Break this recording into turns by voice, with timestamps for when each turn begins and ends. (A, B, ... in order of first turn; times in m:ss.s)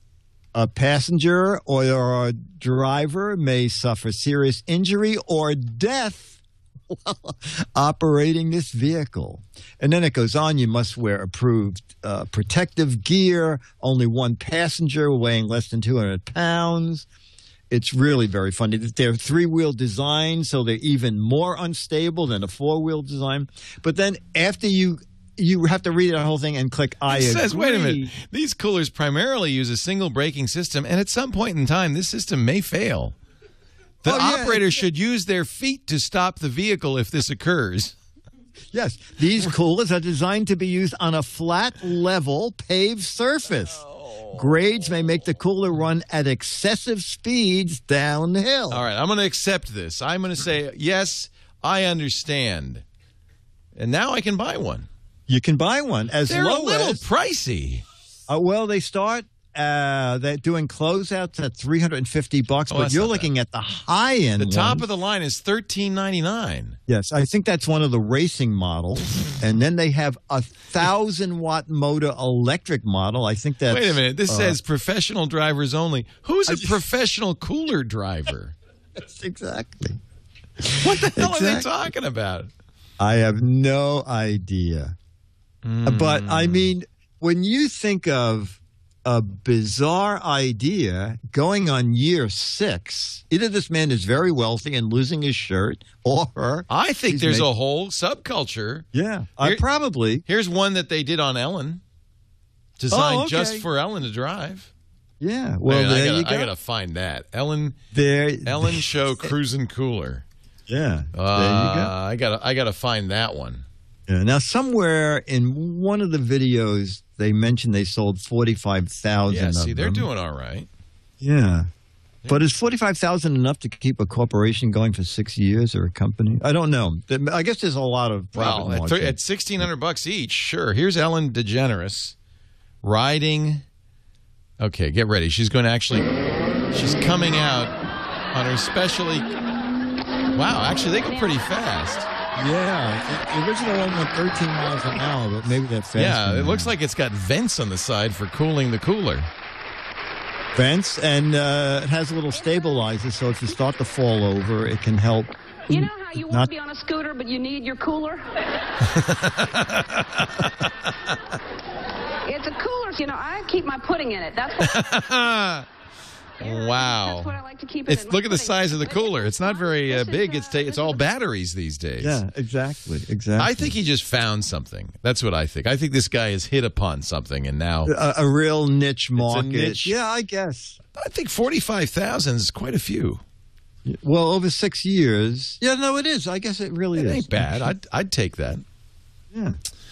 0:00.5-0:06.4 A
0:06.9-0:17.1 A
0:17.7-0:28.1 A
0:27.1-0:33.2 B
0:34.0-0:38.0 B
0:34.1-0:34.6 A
0:38.7-0:43.8 A
0:43.5-0:44.6 B
0:44.3-0:48.8 A
0:48.7-0:52.8 B
0:53.8-0:54.9 B
0:55.3-0:57.0 A
0:56.3-0:57.8 B
0:58.3-1:04.8 A
1:02.7-1:03.3 B
1:04.4-1:06.8 B
1:06.9-1:14.6 A
1:13.7-1:18.6 B
1:16.5-1:16.8 A
1:19.0-1:20.0 A
1:20.6-1:21.7 A
1:20.7-1:22.5 B
1:23.0-1:25.0 A
1:25.6-1:26.7 B
1:25.8-1:37.5 A
1:36.7-1:38.9 B
1:38.9-1:40.2 A
1:40.3-1:41.8 B
1:42.8-1:44.7 B
1:42.9-1:43.6 A
1:45.2-1:46.5 A
1:45.7-1:47.8 B
1:47.9-1:49.3 A
1:48.4-1:50.2 B
1:50.7-1:51.9 A
1:51.1-1:53.7 B
1:54.1-2:00.1 A
1:59.3-2:00.7 B
2:01.2-2:01.7 A
2:02.3-2:09.2 A
2:08.4-2:12.2 B
2:12.8-2:13.6 B
2:14.6-2:16.1 B
2:16.7-2:17.8 B
2:18.3-2:19.3 B
2:20.3-2:22.1 B
2:22.4-2:26.7 A
2:26.0-2:29.3 B
2:30.6-2:36.5 A
2:35.7-2:38.4 C
2:38.8-2:41.1 B
2:42.3-2:44.8 C
2:44.6-2:45.7 B
2:46.4-2:47.4 B
2:46.4-2:51.1 C
2:47.9-2:52.2 B
2:52.0-2:53.7 A
2:53.4-2:57.9 B
2:57.9-3:00.8 A
2:59.2-3:00.0 B
3:01.0-3:03.2 B
3:03.9-3:07.4 A
3:07.0-3:08.6 B